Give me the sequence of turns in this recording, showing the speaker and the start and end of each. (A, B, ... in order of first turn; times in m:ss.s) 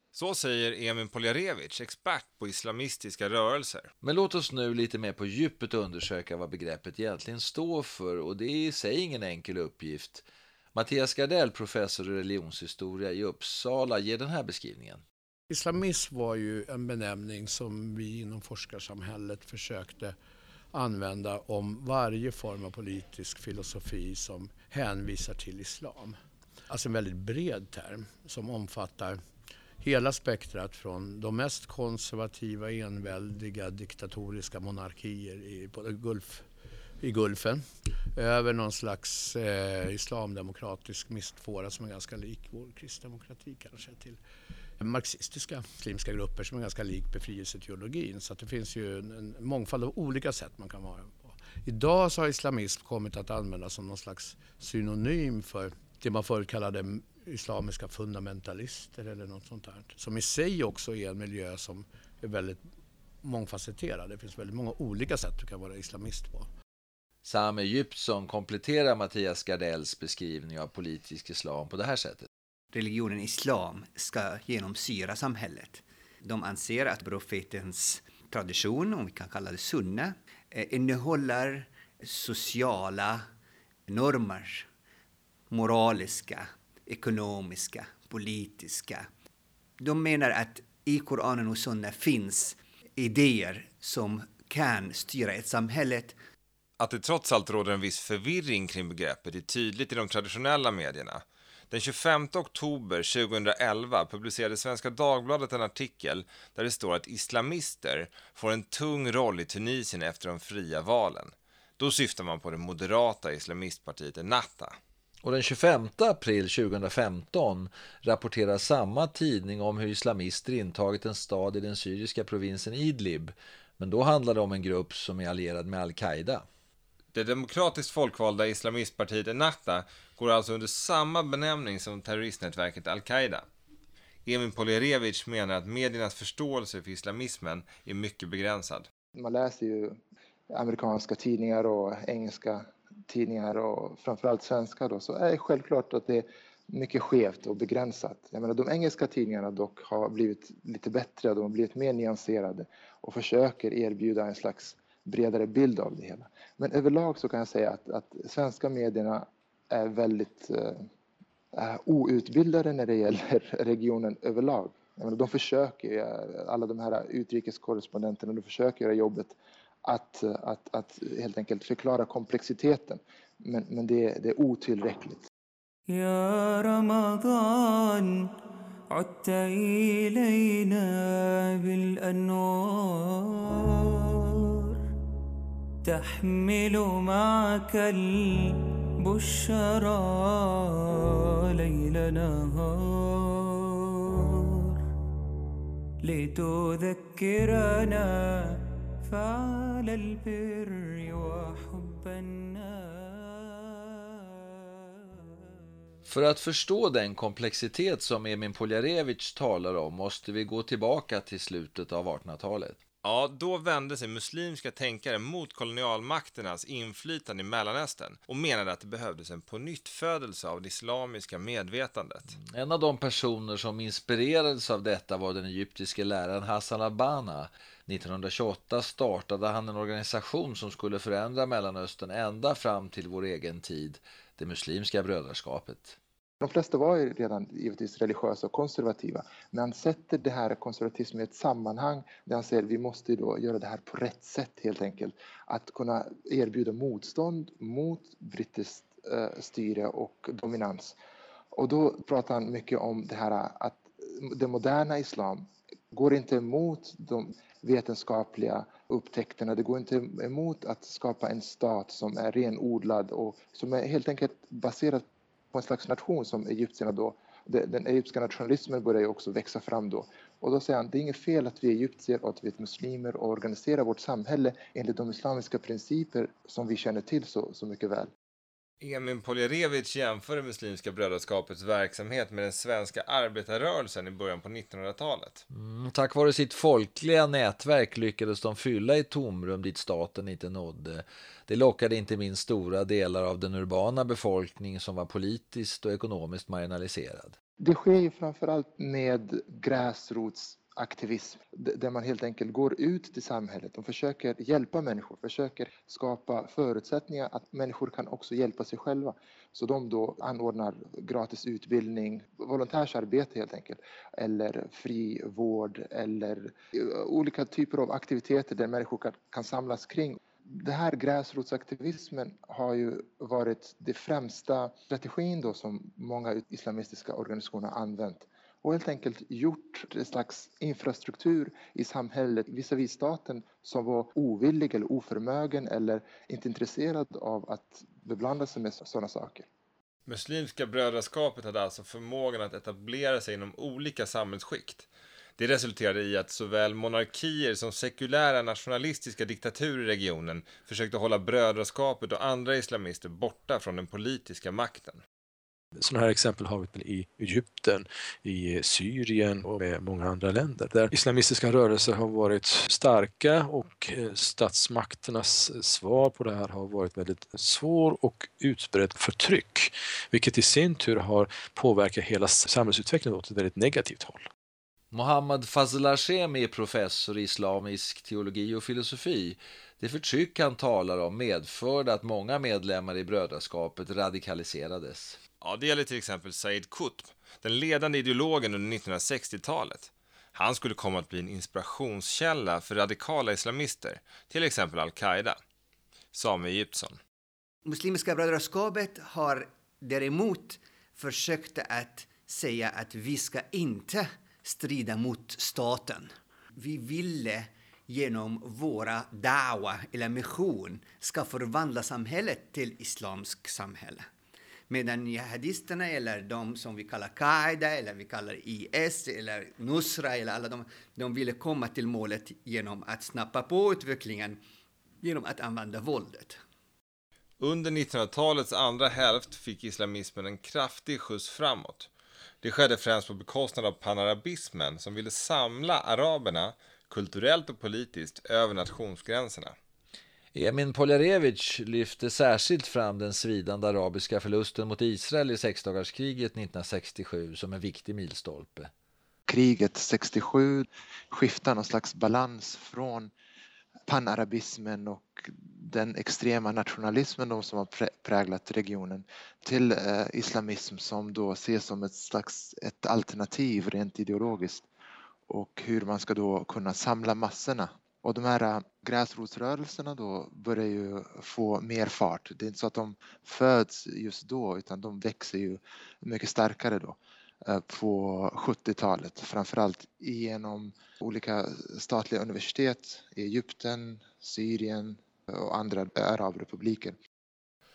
0:00.1-0:03.9 A
0:04.0-0:15.0 B
0:15.5-0:20.2 C
0:20.7-0:26.2 C
0:26.7-0:29.2 C
0:29.8-0:36.4 C
0:37.0-0:44.2 C
0:44.8-1:02.6 C
1:03.2-1:06.5 C
1:07.2-1:12.3 B
1:12.7-1:23.2 D
1:23.9-1:24.7 D
1:25.5-1:29.1 D
1:29.8-1:36.2 D
1:36.8-1:54.7 A
1:55.2-2:06.4 B
2:07.1-2:13.4 A
2:14.2-2:18.9 A
2:19.1-2:20.0 E
2:20.5-2:40.9 E
2:41.5-2:55.2 E
2:55.9-2:58.3 F
2:58.9-3:04.8 F
3:05.8-3:14.8 F
3:16.0-3:24.2 F
3:26.0-3:32.8 B
3:33.0-3:42.3 A
3:42.3-3:56.0 B
3:56.4-4:11.0 E
4:11.5-4:38.1 E
4:38.8-4:45.4 A
4:45.5-4:57.4 B
4:57.6-5:39.5 E
5:40.1-5:55.0 A
5:55.8-6:14.2 G
6:14.9-6:25.2 B
6:25.4-6:35.4 A
6:36.1-6:37.0 A
6:37.6-6:54.0 D
6:54.7-7:04.4 D
7:05.0-7:06.4 D
7:07.4-7:11.9 A
7:12.4-7:19.5 A
7:20.3-7:28.7 B
7:29.3-7:33.1 E
7:33.9-7:44.6 E
7:45.3-8:07.0 E